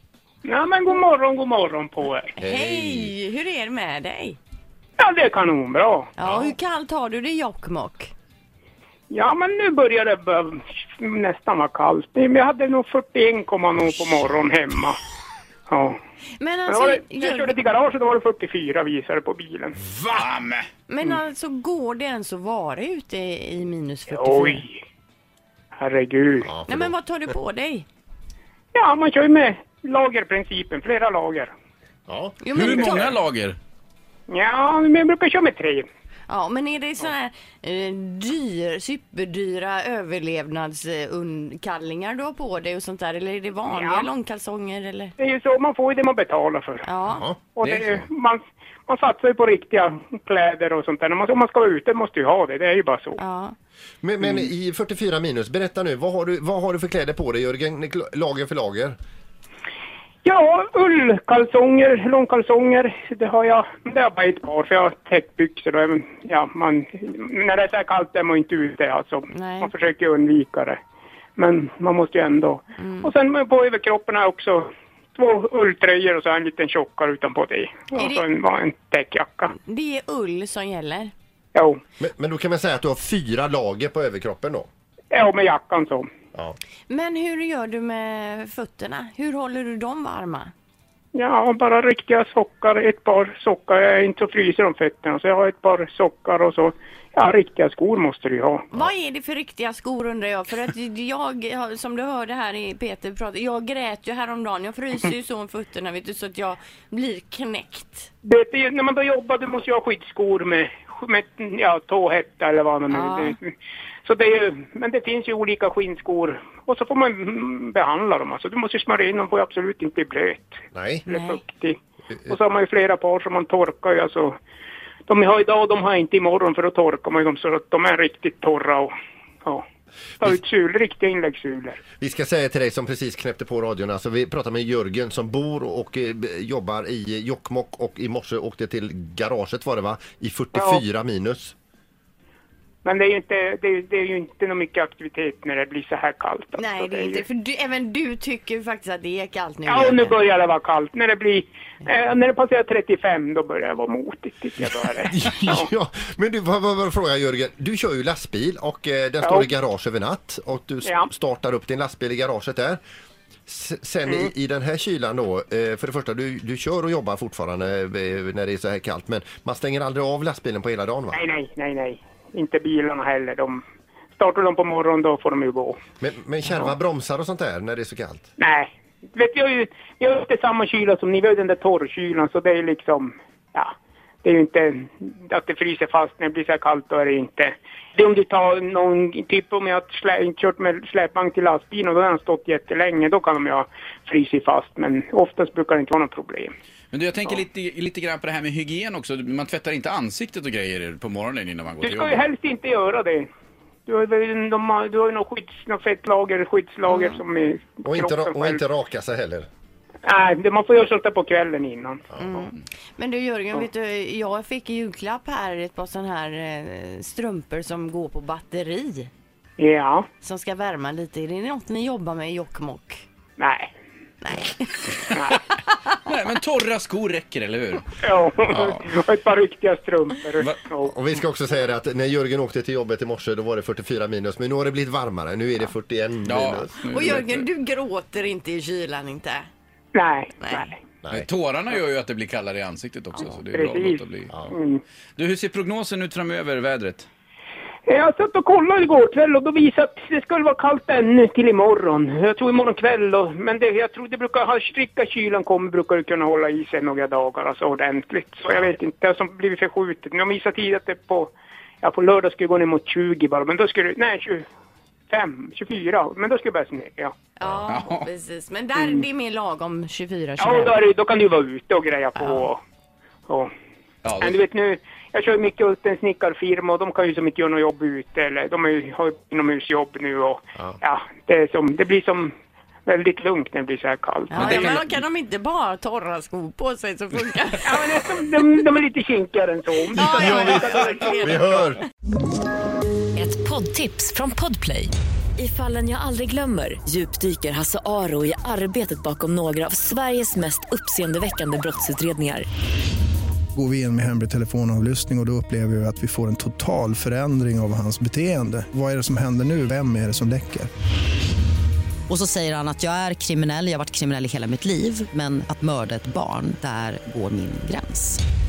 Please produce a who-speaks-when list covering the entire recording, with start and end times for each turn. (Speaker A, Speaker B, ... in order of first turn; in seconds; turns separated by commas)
Speaker A: 0.4-2.3, Speaker B: 2.4-4.4, Speaker C: 2.4-3.1, Speaker A: 5.0-6.1, Speaker B: 6.2-8.1, Speaker C: 6.2-6.5, Speaker A: 9.1-15.0, Speaker A: 15.7-16.0, Speaker B: 16.4-17.5, Speaker A: 16.7-19.8, Speaker D: 19.9-20.7, Speaker B: 20.9-24.6, Speaker A: 24.1-24.8, Speaker A: 25.8-26.5, Speaker C: 26.4-26.9, Speaker B: 26.7-27.9, Speaker A: 28.7-31.5, Speaker C: 32.1-32.4, Speaker B: 32.4-33.2, Speaker D: 32.5-33.6, Speaker A: 32.6-33.1, Speaker A: 34.3-35.9, Speaker B: 36.3-45.1, Speaker A: 43.7-44.1, Speaker A: 45.2-46.8, Speaker B: 46.8-47.2, Speaker C: 47.1-47.4, Speaker A: 47.5-53.2, Speaker D: 47.6-47.9, Speaker B: 53.2-53.5, Speaker C: 54.0-59.0, Speaker A: 60.2-70.8, Speaker B: 69.3-69.7, Speaker A: 71.4-79.5, Speaker B: 72.8-73.1, Speaker B: 77.9-78.2, Speaker B: 79.5-81.1, Speaker A: 81.5-81.8, Speaker C: 82.0-84.7, Speaker A: 85.1-86.1, Speaker B: 86.9-90.5, Speaker A: 91.1-98.7, Speaker B: 98.7-108.1, Speaker A: 108.2-113.5, Speaker B: 112.9-113.4, Speaker A: 114.0-124.4, Speaker C: 120.7-121.0, Speaker B: 121.1-121.4, Speaker A: 125.1-128.9, Speaker A: 130.2-131.8, Speaker C: 132.0-141.5, Speaker A: 140.6-140.8, Speaker A: 142.8-147.2, Speaker B: 146.6-150.2, Speaker A: 149.7-155.7, Speaker C: 155.0-162.8, Speaker A: 159.2-159.5, Speaker A: 160.8-161.1, Speaker C: 163.5-171.2, Speaker A: 171.1-173.6, Speaker A: 174.2-175.8, Speaker C: 176.0-178.3, Speaker A: 178.4-196.5, Speaker D: 196.9-202.2, Speaker A: 201.8-203.3, Speaker A: 203.9-208.6, Speaker C: 207.8-209.5, Speaker A: 210.0-212.1, Speaker B: 212.2-219.1, Speaker A: 219.6-220.1, Speaker B: 220.2-223.0, Speaker A: 223.4-223.7, Speaker B: 224.2-224.9, Speaker A: 225.1-225.4, Speaker D: 226.1-227.9, Speaker A: 228.0-230.9, Speaker D: 228.5-228.8, Speaker C: 230.8-237.2, Speaker D: 236.2-237.4, Speaker B: 236.8-239.5, Speaker A: 239.9-240.8, Speaker B: 240.4-240.7, Speaker D: 241.1-244.4, Speaker A: 243.5-244.8, Speaker D: 245.2-247.1, Speaker A: 247.9-264.4, Speaker A: 265.1-267.2, Speaker B: 267.4-270.8, Speaker D: 267.7-268.1, Speaker A: 268.8-269.0, Speaker A: 270.4-272.6, Speaker B: 272.2-272.5, Speaker D: 274.0-274.3, Speaker A: 274.2-282.3, Speaker A: 282.9-284.8, Speaker B: 284.3-287.8, Speaker A: 287.6-290.7, Speaker B: 289.9-291.8, Speaker C: 289.9-291.8, Speaker E: 293.1-302.5, Speaker F: 303.5-310.7, Speaker G: 312.1-318.2